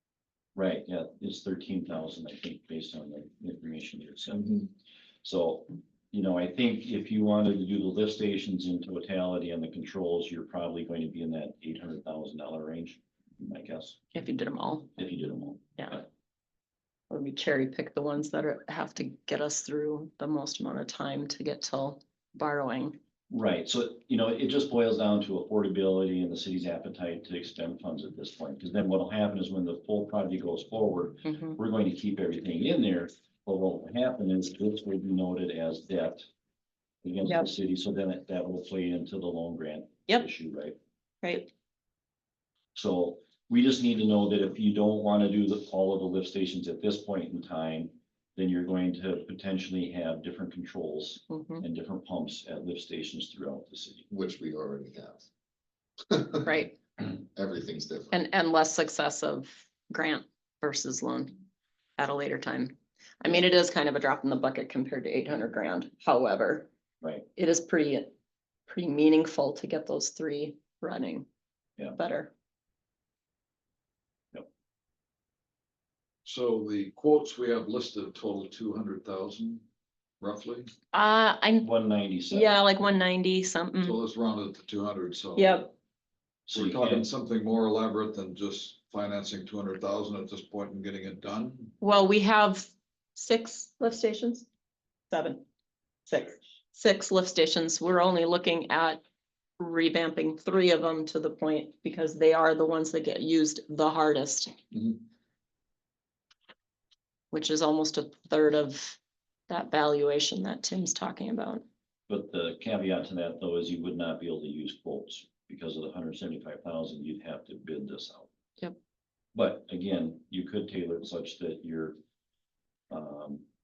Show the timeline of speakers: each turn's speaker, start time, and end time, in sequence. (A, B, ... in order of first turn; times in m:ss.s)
0:00.5-0:04.7 A
0:05.2-0:14.0 A
0:14.1-0:14.9 B
0:15.0-0:16.0 A
0:17.1-0:23.0 B
0:23.3-0:36.2 A
0:31.2-0:31.6 B
0:37.0-0:40.8 A
0:41.2-0:41.5 B
0:42.7-0:54.1 A
0:51.3-0:51.6 B
0:54.1-0:55.3 C
0:56.1-0:56.6 C
0:56.4-0:56.7 B
0:57.3-0:58.2 C
0:58.1-1:01.4 B
1:02.0-1:06.7 B
1:07.0-1:07.3 A
1:07.3-1:08.1 B
1:08.7-1:11.3 B
1:12.0-1:12.3 B
1:16.2-1:19.6 D
1:20.2-1:20.7 D
1:20.9-1:21.7 B
1:21.6-1:22.6 A
1:22.3-1:24.0 B
1:23.8-1:25.7 D
1:25.4-1:25.7 B
1:26.5-1:27.0 A
1:26.5-1:31.8 D
1:31.8-1:34.5 B
1:35.1-1:35.4 B
1:36.0-1:39.0 B
1:39.6-1:44.6 B
1:47.3-1:49.0 B
1:49.5-1:51.6 B
1:52.1-1:58.3 A
1:59.3-2:02.0 A
2:02.9-2:03.4 A